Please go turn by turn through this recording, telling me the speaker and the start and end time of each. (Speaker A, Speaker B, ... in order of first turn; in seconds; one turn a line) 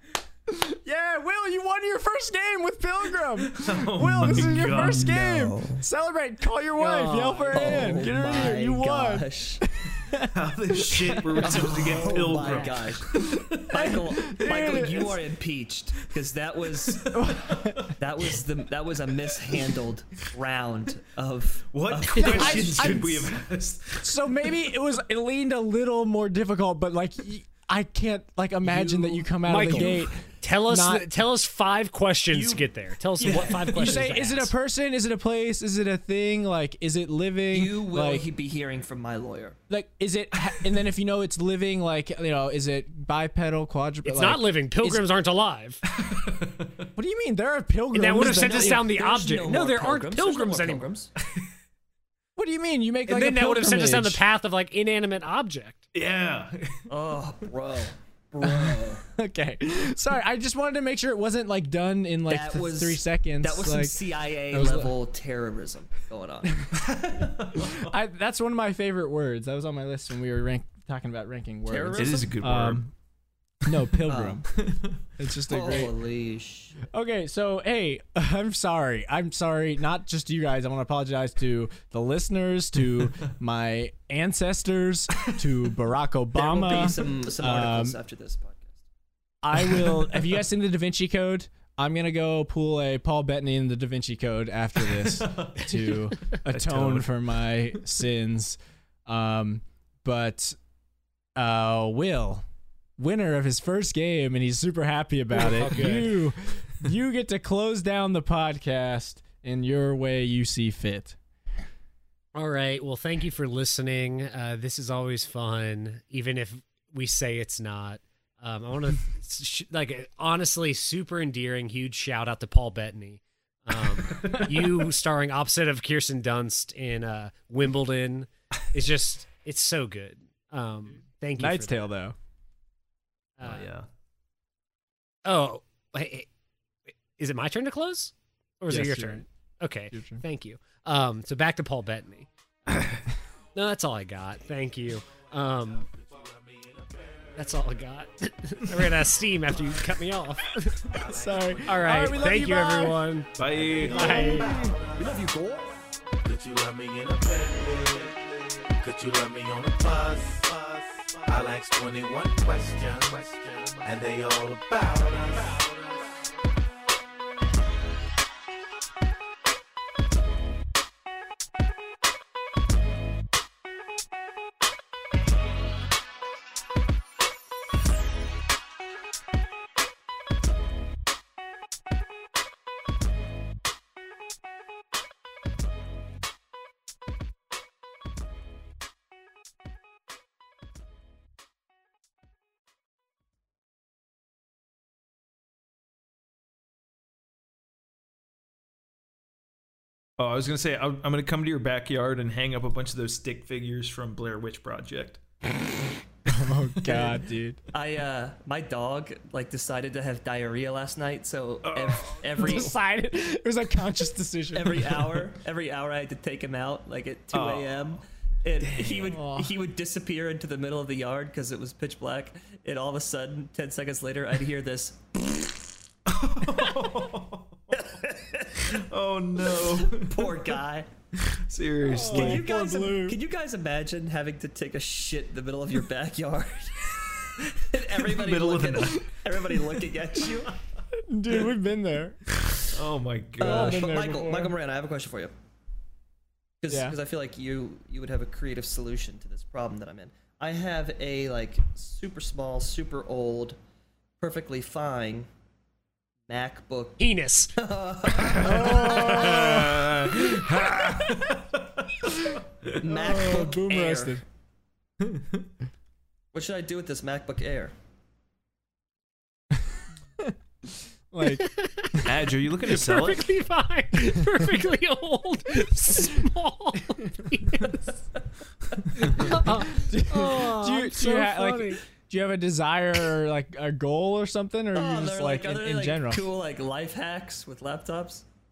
Speaker A: 0.5-12.0
Speaker B: 3.5-5.1
Speaker C: 4.8-5.8
Speaker D: 6.8-8.1
Speaker C: 7.5-9.6
Speaker B: 10.3-13.7
Speaker C: 11.4-13.1
Speaker A: 13.5-15.2
Speaker C: 13.7-17.1
Speaker B: 16.9-17.9
Speaker A: 17.1-17.9
Speaker C: 18.0-23.3
Speaker B: 21.7-24.7
Speaker A: 22.2-23.3
Speaker A: 24.0-31.1
Speaker C: 28.6-30.0
Speaker D: 29.4-34.5
Speaker C: 32.3-32.7
Speaker C: 33.2-34.1
Speaker A: 33.2-38.3
Speaker C: 37.5-39.6
Speaker A: 39.7-45.1
Speaker D: 44.0-45.8
Speaker B: 45.9-46.9
Speaker A: 47.0-48.9
Speaker D: 47.9-50.9
Speaker C: 48.2-51.1
Speaker A: 52.4-54.2
Speaker D: 53.1-55.9
Speaker B: 55.9-56.9
Speaker C: 56.9-59.0
Speaker A: 58.4-64.0
Speaker C: 62.3-67.3
Speaker A: 64.5-64.9
Speaker B: 66.8-68.0
Speaker A: 67.7-72.9
Speaker C: 71.7-72.3
Speaker B: 72.0-72.9
Speaker A: 73.7-74.5
Speaker C: 74.1-74.5
Speaker B: 74.5-75.0
Speaker A: 75.2-75.9
Speaker C: 75.5-76.8
Speaker A: 76.9-88.0
Speaker C: 86.4-88.8
Speaker A: 89.4-100.6
Speaker B: 89.7-90.3
Speaker B: 94.8-97.2
Speaker A: 101.4-102.4
Speaker A: 103.0-111.2
Speaker D: 105.3-106.2
Speaker D: 112.3-131.9
Speaker B: 124.1-124.6
Speaker A: 131.4-132.2
Speaker D: 133.4-133.7
Speaker B: 133.4-133.9
Speaker D: 135.2-136.3
Speaker D: 136.9-142.3
Speaker A: 138.7-139.3
Speaker A: 139.9-140.2
Speaker B: 142.7-143.0
Speaker D: 143.6-145.9
Speaker E: 145.9-147.0
Speaker D: 147.4-150.9
Speaker E: 150.9-152.2
Speaker A: 151.1-153.0
Speaker D: 151.7-153.3
Speaker B: 153.4-154.3
Speaker E: 153.4-155.2
Speaker D: 153.9-154.5
Speaker A: 153.9-154.7
Speaker C: 155.0-155.7
Speaker E: 156.2-165.7
Speaker B: 200.2-205.2
Speaker A: 206.3-207.6
Speaker C: 207.7-212.8
Speaker B: 211.6-212.7
Speaker A: 212.4-215.3
Speaker C: 214.5-225.6
Speaker B: 217.3-218.0
Speaker B: 218.6-219.1
Speaker A: 219.1-219.5
Speaker B: 226.1-227.6
Speaker C: 227.7-228.8
Speaker B: 228.6-230.3
Speaker C: 229.5-230.9
Speaker B: 231.3-232.5
Speaker A: 231.9-233.2
Speaker C: 231.9-240.6
Speaker B: 238.0-239.2
Speaker A: 240.9-242.2
Speaker B: 242.5-243.9
Speaker A: 243.4-244.5
Speaker C: 243.4-245.3
Speaker C: 246.6-253.6
Speaker A: 246.7-246.9
Speaker C: 254.2-255.3
Speaker C: 256.3-257.1
Speaker D: 257.0-257.5
Speaker C: 257.6-259.6
Speaker B: 258.3-262.8
Speaker A: 258.4-259.8
Speaker C: 262.8-264.2
Speaker A: 262.8-264.2
Speaker B: 265.0-265.4
Speaker C: 266.3-267.7
Speaker A: 271.1-272.1
Speaker D: 271.2-277.8
Speaker B: 272.1-273.3
Speaker B: 279.0-279.4
Speaker D: 279.2-281.8
Speaker A: 279.3-286.2
Speaker C: 284.7-288.2